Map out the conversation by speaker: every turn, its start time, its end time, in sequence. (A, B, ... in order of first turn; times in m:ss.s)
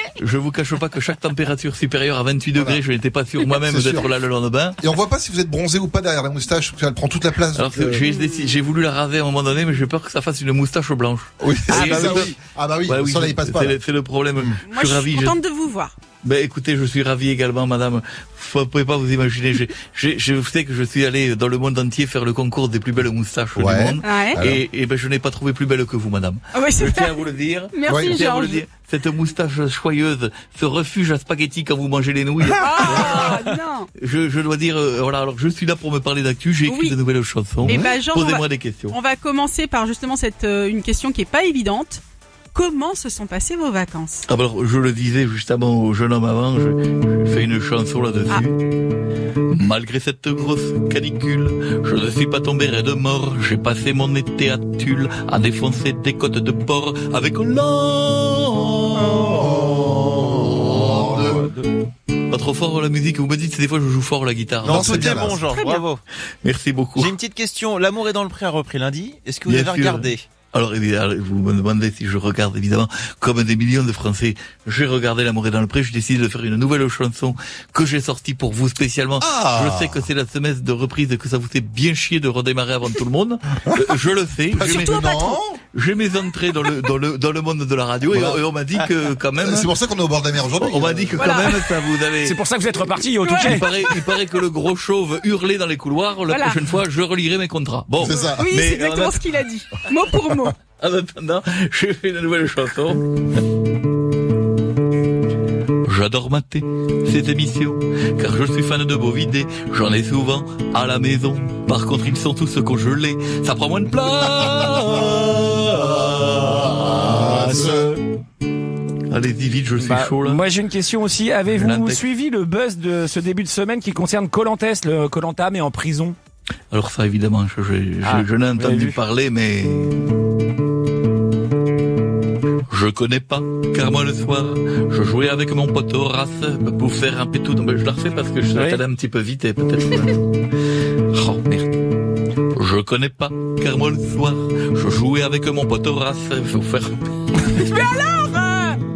0:00.2-0:04.8 A
0:02.5-0:02.8 B
0:03.6-0:04.1 B
0:04.8-0:08.0 B
0:07.5-0:15.4 A
0:08.0-0:08.5 C
0:11.4-0:13.8 B
0:11.7-0:12.3 D
0:14.6-0:15.9 C
0:16.2-0:39.0 A
0:23.5-0:24.6 B
0:24.0-0:24.4 C
0:26.5-0:27.2 C
0:27.7-0:28.6 C
0:27.9-0:28.2 B
0:32.6-0:33.9 C
0:36.6-0:37.0 C
0:37.6-0:44.2 C
0:37.6-0:37.9 B
0:44.2-0:48.6 A
0:49.5-1:01.4 A
0:59.0-1:01.4 B
1:01.3-1:01.7 D
1:02.3-1:05.4 A
1:04.6-1:06.0 E
1:04.6-1:05.4 B
1:05.5-1:05.9 C
1:06.4-1:07.2 A
1:07.0-1:10.2 E
1:09.4-1:25.0 A
1:19.2-1:20.0 B
1:24.5-1:25.6 B
1:24.6-1:25.4 C
1:25.7-1:29.7 A
1:28.1-1:28.4 B
1:29.4-1:31.4 B
1:30.6-1:39.2 A
1:31.2-1:31.7 C
1:32.2-1:33.7 D
1:33.2-1:33.9 C
1:36.3-1:36.6 C
1:38.0-1:38.5 B
1:38.1-1:40.6 C
1:40.8-1:43.1 A
1:45.8-1:57.7 A
1:56.4-1:57.9 B
1:57.2-1:57.9 D
1:59.1-2:00.4 A
1:59.8-2:06.2 D
2:01.5-2:02.0 A
2:06.7-2:10.0 A
2:08.0-2:09.0 D
2:12.7-2:20.2 A
2:18.5-2:18.8 D
2:21.1-2:21.7 A
2:22.5-2:27.0 A
2:27.5-2:28.8 C